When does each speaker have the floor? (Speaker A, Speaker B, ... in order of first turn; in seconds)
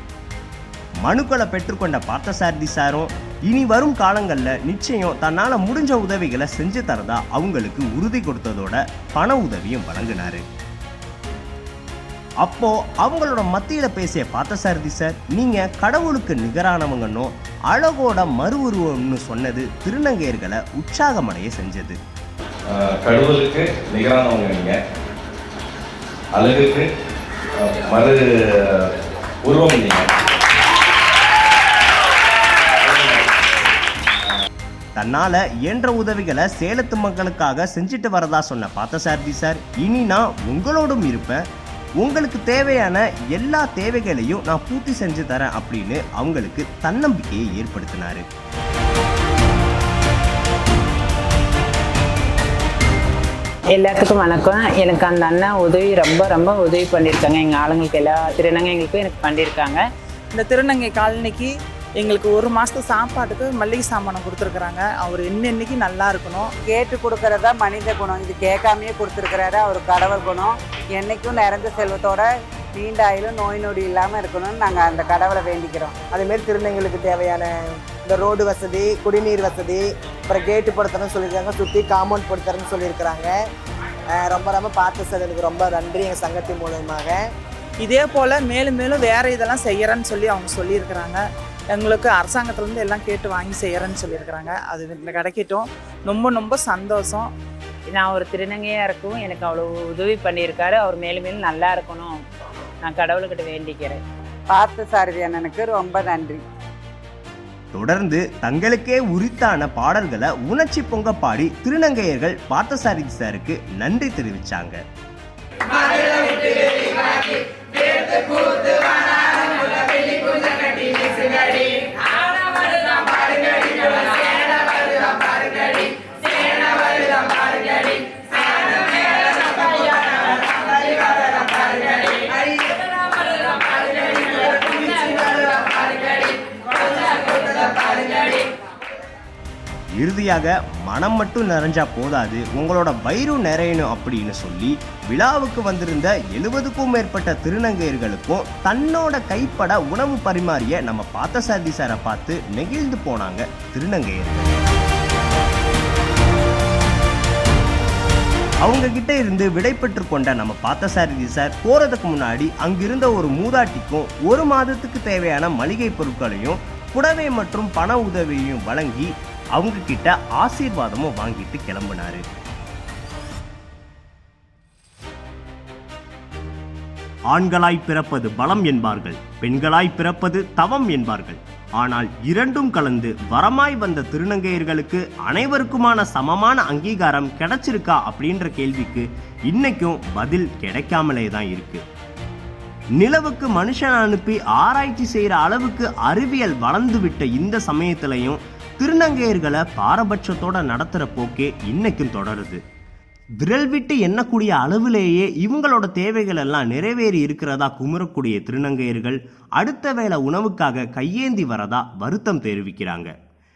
Speaker A: 1.0-10.4, 12.4-22.0, 35.0-41.4, 42.0-48.2, 107.7-114.8, 140.0-154.6, 158.6-172.2, 177.3-191.8, 193.0-202.6, 203.4-213.1
Speaker B: 22.7-24.8, 26.4-26.9, 27.6-28.9, 29.4-30.1, 32.8-33.2
Speaker C: 53.7-59.8, 97.9-102.2, 102.8-104.0, 134.4-135.1
Speaker D: 60.3-66.5, 87.8-91.2, 91.7-97.3
Speaker E: 66.7-76.0, 104.5-106.4
Speaker F: 76.1-83.3, 84.1-87.2